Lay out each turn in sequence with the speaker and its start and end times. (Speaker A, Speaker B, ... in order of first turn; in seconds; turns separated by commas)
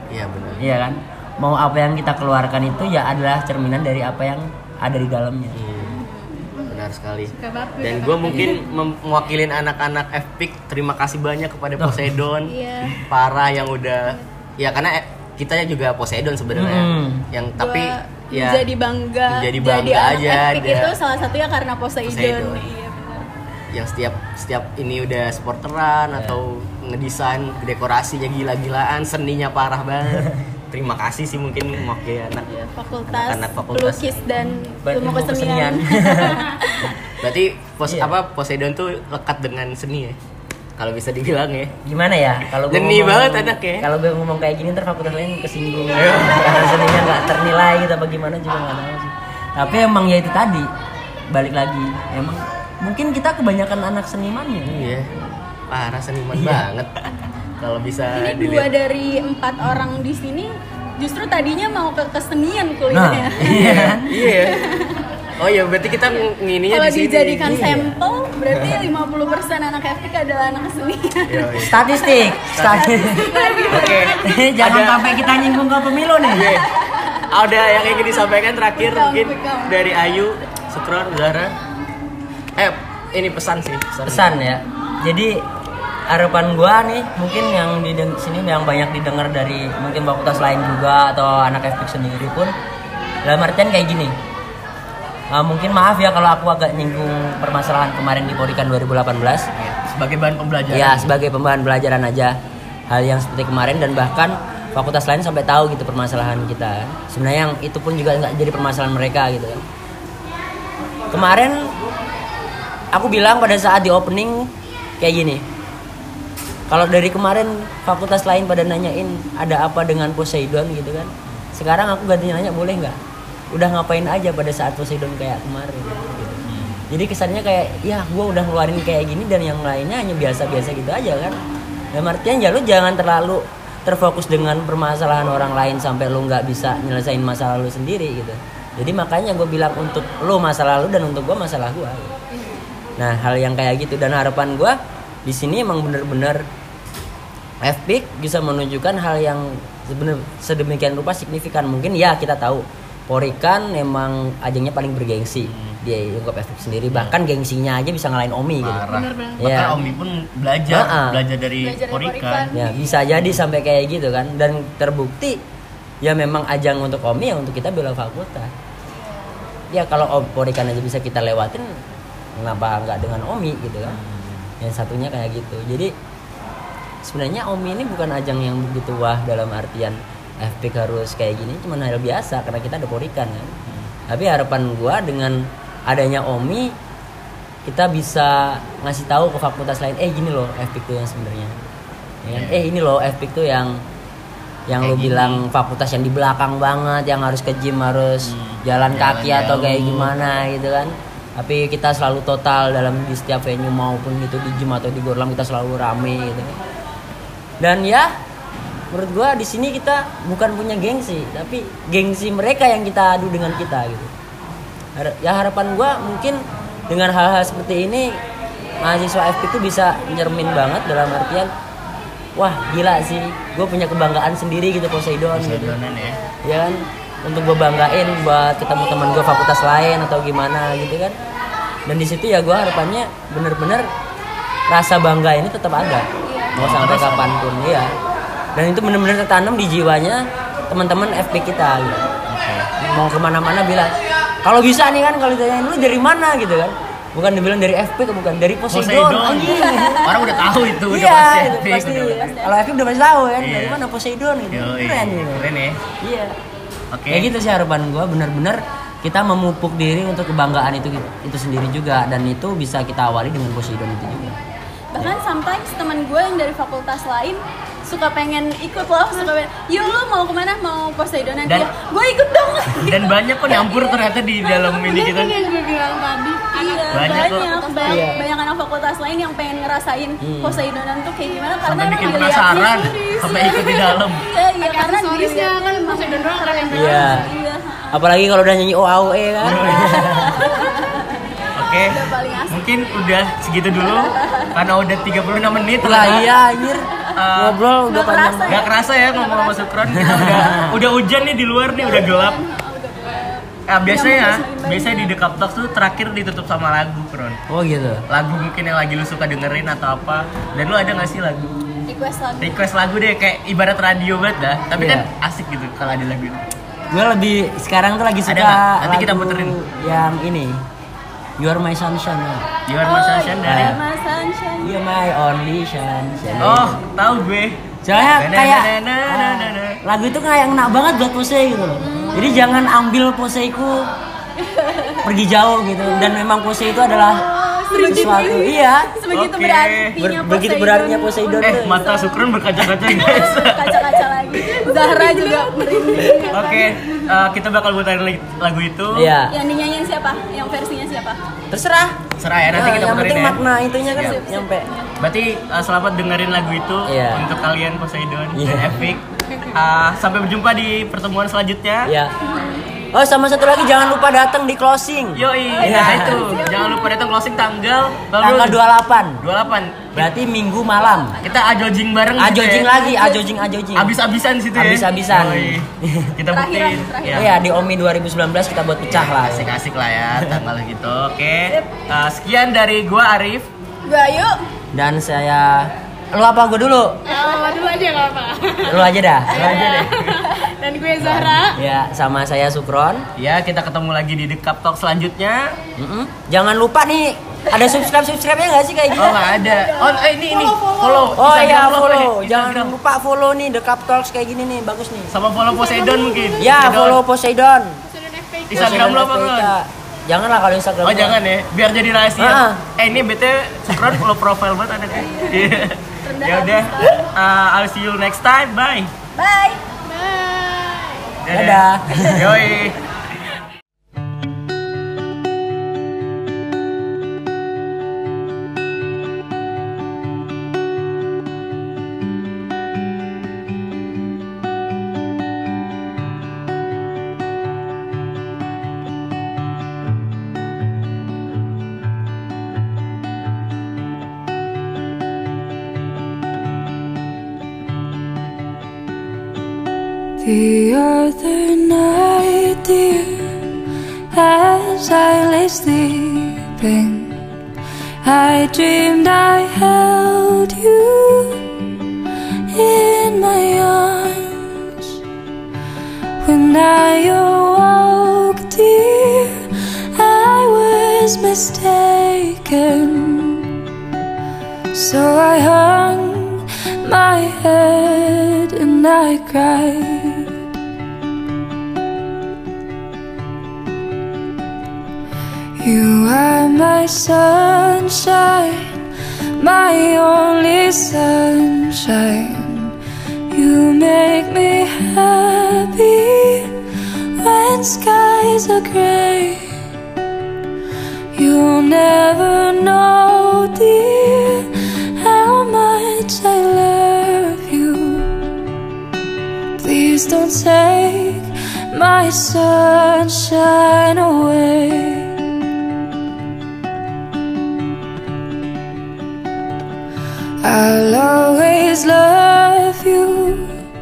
Speaker A: 0.1-0.7, Speaker B: 0.6-5.6, Speaker A: 5.5-6.0, Speaker C: 5.8-6.7, Speaker A: 6.7-18.7, Speaker C: 7.4-8.8, Speaker B: 8.3-8.6, Speaker B: 11.8-12.1, Speaker C: 12.4-13.0, Speaker B: 16.5-17.3, Speaker C: 17.6-23.3, Speaker A: 19.3-21.0, Speaker A: 22.1-22.7, Speaker A: 23.7-32.5, Speaker C: 32.5-37.0, Speaker A: 33.1-34.3, Speaker B: 34.8-36.5, Speaker A: 37.2-40.2, Speaker B: 37.9-38.1, Speaker A: 40.8-41.7, Speaker B: 41.8-50.7, Speaker A: 42.7-43.9, Speaker A: 46.0-46.9, Speaker B: 51.3-55.1, Speaker A: 54.6-55.1, Speaker A: 55.7-56.9, Speaker B: 56.4-56.7, Speaker A: 57.6-58.7, Speaker C: 58.1-65.1, Speaker B: 62.9-64.1, Speaker A: 63.4-64.6, Speaker A: 65.4-67.8, Speaker C: 66.0-74.4, Speaker B: 67.4-68.0, Speaker A: 68.5-68.8, Speaker A: 71.3-71.8, Speaker B: 71.6-76.6, Speaker A: 72.5-72.9, Speaker A: 73.7-75.1, Speaker A: 76.3-76.7, Speaker C: 76.4-77.3, Speaker A: 77.3-81.5, Speaker C: 78.8-80.2, Speaker A: 82.6-84.3, Speaker B: 84.1-85.4, Speaker B: 86.1-92.5, Speaker B: 93.2-94.2, Speaker B: 95.3-99.5, Speaker A: 99.6-101.1, Speaker B: 100.7-102.4, Speaker B: 102.9-109.7, Speaker B: 111.1-111.7, Speaker B: 112.9-115.5, Speaker B: 116.7-123.0, Speaker B: 123.5-131.4, Speaker A: 126.5-126.8, Speaker B: 131.9-142.1, Speaker B: 143.0-146.5, Speaker B: 147.6-159.9, Speaker A: 155.4-155.8, Speaker A: 158.6-162.5, Speaker B: 160.7-161.2, Speaker C: 161.6-163.1, Speaker B: 162.5-165.4, Speaker B: 166.0-168.5, Speaker C: 168.9-169.5, Speaker B: 169.7-171.8, Speaker B: 172.4-174.0, Speaker A: 173.9-174.5, Speaker B: 174.6-175.9, Speaker B: 177.0-183.6, Speaker A: 183.7-183.9, Speaker B: 184.1-186.7, Speaker B: 187.7-191.7, Speaker B: 192.2-193.8, Speaker A: 192.3-192.6, Speaker B: 194.7-206.6, Speaker A: 194.8-195.4, Speaker A: 198.2-200.1, Speaker B: 207.6-208.1, Speaker B: 208.9-214.1, Speaker B: 215.0-218.2, Speaker B: 218.8-221.5, Speaker B: 222.4-225.8, Speaker A: 225.3-226.2, Speaker C: 226.0-226.3, Speaker B: 226.4-231.2, Speaker B: 231.9-233.9, Speaker B: 234.7-237.9, Speaker C: 236.3-236.6, Speaker A: 236.6-237.4, Speaker B: 238.6-242.1, Speaker A: 242.3-242.7, Speaker B: 242.8-250.2, Speaker A: 248.7-252.3, Speaker C: 249.6-250.2, Speaker B: 250.9-255.5, Speaker C: 252.1-252.5, Speaker A: 253.4-253.8, Speaker A: 254.5-255.8, Speaker B: 256.0-256.4, Speaker A: 256.9-257.3, Speaker B: 257.1-264.4, Speaker C: 264.9-274.0, Speaker A: 272.8-275.5, Speaker D: 274.9-278.1, Speaker C: 276.5-288.0, Speaker A: 276.9-277.6, Speaker B: 277.9-278.2, Speaker B: 280.2-280.6, Speaker A: 281.6-284.2, Speaker D: 284.6-287.1, Speaker B: 286.7-287.3, Speaker B: 287.9-290.3, Speaker A: 289.4-290.5, Speaker C: 289.7-292.6, Speaker A: 291.6-296.3, Speaker C: 293.8-294.6, Speaker B: 295.8-298.7, Speaker A: 297.1-297.6, Speaker C: 297.9-300.3, Speaker A: 298.5-302.4, Speaker B: 299.9-300.8, Speaker C: 301.7-305.1, Speaker A: 303.7-307.4, Speaker B: 307.5-308.1, Speaker A: 308.1-311.7, Speaker C: 311.9-312.6, Speaker A: 312.4-316.4, Speaker B: 314.8-315.1, Speaker B: 316.9-320.6, Speaker A: 318.3-319.6, Speaker B: 321.4-322.5, Speaker A: 322.7-323.8, Speaker C: 322.8-324.8, Speaker B: 323.4-323.8, Speaker B: 324.6-326.8, Speaker A: 326.4-327.6, Speaker B: 327.9-333.9, Speaker A: 328.1-329.8, Speaker C: 331.8-332.5, Speaker C: 334.4-335.1, Speaker B: 335.0-338.9, Speaker C: 336.9-342.2, Speaker A: 339.1-340.0, Speaker B: 340.0-342.0, Speaker A: 341.4-343.9, Speaker C: 342.8-347.0, Speaker A: 346.3-349.1, Speaker B: 348.9-349.3, Speaker C: 349.3-351.2, Speaker B: 351.5-352.0, Speaker A: 352.2-353.4, Speaker B: 352.5-354.7, Speaker C: 353.9-354.9, Speaker A: 355.0-361.9, Speaker B: 356.9-357.3, Speaker B: 358.4-358.9, Speaker B: 361.9-362.1, Speaker C: 362.2-362.7, Speaker B: 362.9-366.2, Speaker A: 365.1-368.6, Speaker C: 365.5-366.9, Speaker B: 368.2-369.2, Speaker A: 369.2-370.1, Speaker B: 369.9-371.2, Speaker A: 371.2-372.9, Speaker B: 372.2-373.9, Speaker C: 372.8-373.4, Speaker A: 373.8-377.3, Speaker B: 374.5-376.1, Speaker C: 376.3-377.4, Speaker B: 377.1-379.6, Speaker A: 378.9-383.5, Speaker B: 380.1-380.4, Speaker C: 383.9-384.4, Speaker B: 384.7-387.1, Speaker D: 387.1-388.7, Speaker C: 387.1-387.6, Speaker B: 388.6-389.9, Speaker A: 389.3-390.3, Speaker C: 389.3-390.5, Speaker D: 389.7-391.5, Speaker A: 391.0-391.5, Speaker B: 391.0-393.1, Speaker A: 393.2-395.6, Speaker B: 395.8-399.3, Speaker C: 397.6-397.8, Speaker A: 399.0-402.7, Speaker C: 399.1-400.0, Speaker D: 399.9-401.1, Speaker B: 401.1-405.1, Speaker A: 405.1-407.0, Speaker D: 405.5-406.4, Speaker B: 406.4-407.8, Speaker D: 407.9-408.4, Speaker A: 408.5-409.5, Speaker B: 408.5-411.2, Speaker A: 410.8-418.9, Speaker B: 412.2-412.6, Speaker C: 415.0-417.1, Speaker C: 419.2-421.1, Speaker A: 421.2-422.8, Speaker B: 421.3-422.4, Speaker E: 450.2-453.5, Speaker E: 454.1-457.2, Speaker E: 458.0-461.5, Speaker E: 462.5-465.0, Speaker E: 466.2-473.6, Speaker E: 474.7-480.3, Speaker E: 485.6-488.8, Speaker E: 489.4-492.7, Speaker E: 493.3-496.6, Speaker E: 497.2-499.6, Speaker E: 501.1-508.2, Speaker E: 509.6-515.1, Speaker E: 520.4-523.6